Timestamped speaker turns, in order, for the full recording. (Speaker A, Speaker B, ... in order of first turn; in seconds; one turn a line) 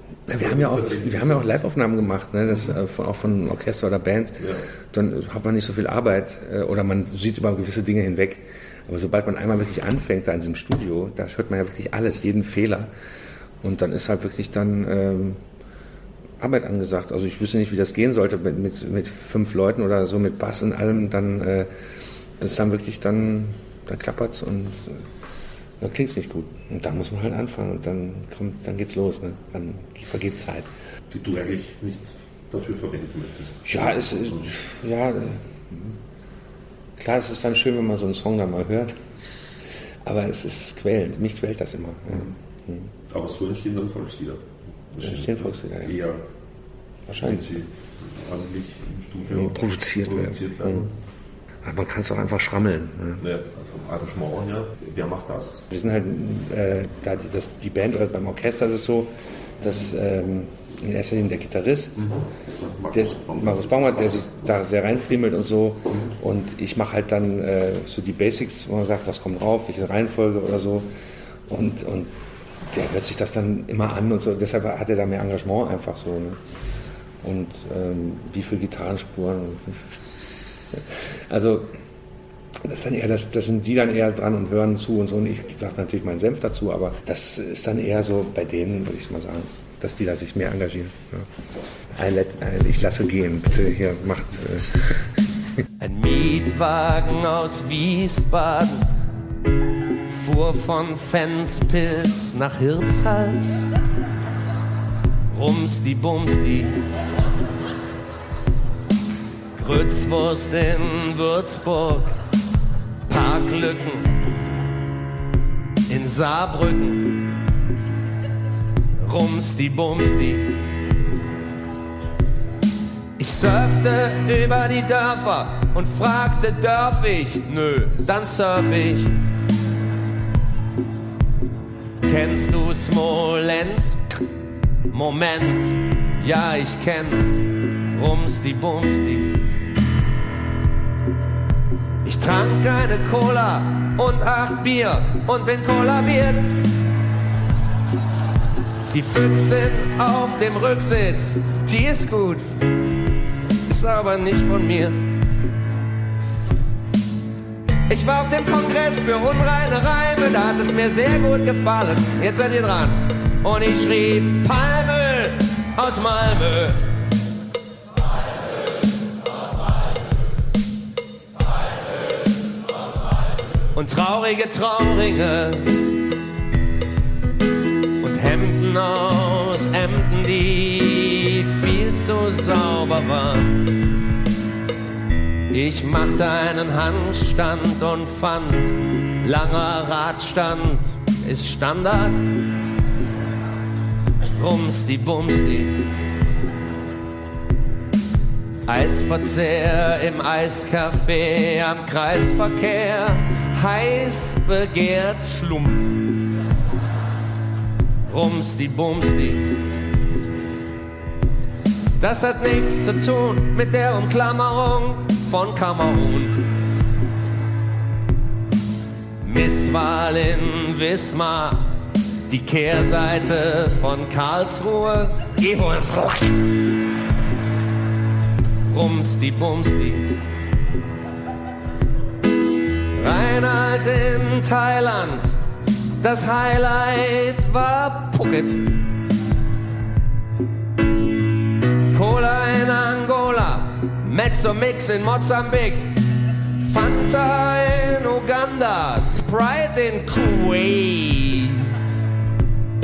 Speaker A: 0.3-12.9
Speaker B: 0.4-1.5
Speaker B: 4.4-4.7
Speaker A: 13.6-15.4
Speaker A: 16.4-21.7
Speaker A: 22.4-25.1
Speaker A: 25.8-30.7
Speaker B: 31.1-34.5
Speaker A: 33.7-36.0
Speaker A: 37.0-39.0
Speaker A: 40.0-42.9
Speaker B: 43.1-46.2
Speaker A: 45.0-46.0
Speaker A: 47.1-47.5
Speaker B: 47.1-50.9
Speaker A: 49.3-50.9
Speaker A: 51.6-53.2
Speaker B: 53.2-55.7
Speaker A: 55.7-62.1
Speaker B: 62.0-64.5
Speaker A: 62.9-70.9
Speaker A: 71.5-72.1
Speaker A: 72.7-76.4
Speaker A: 77.2-80.0
Speaker A: 80.7-81.7
Speaker A: 82.6-91.3
Speaker A: 91.9-95.1
Speaker C: 95.8-98.9
Speaker C: 100.1-103.7
Speaker C: 105.3-106.8
Speaker C: 109.6-112.2
Speaker C: 113.1-114.2
Speaker C: 115.9-117.2
Speaker C: 119.0-120.5
Speaker C: 123.2-129.1
Speaker C: 132.1-134.2
Speaker C: 134.9-139.4
Speaker C: 142.0-146.5
Speaker C: 148.9-152.5
Speaker C: 153.7-154.9
Speaker C: 157.9-166.8
Speaker C: 173.7-175.9
Speaker C: 178.0-183.7
Speaker C: 185.5-192.2
Speaker C: 194.3-195.8
Speaker C: 198.7-206.0
Speaker C: 208.1-209.6
Speaker C: 212.0-216.4
Speaker C: 219.2-221.7
Speaker C: 222.3-226.4
Speaker C: 228.7-230.1
Speaker C: 232.9-235.3
Speaker C: 236.0-238.7
Speaker C: 241.9-245.9
Speaker C: 246.6-251.8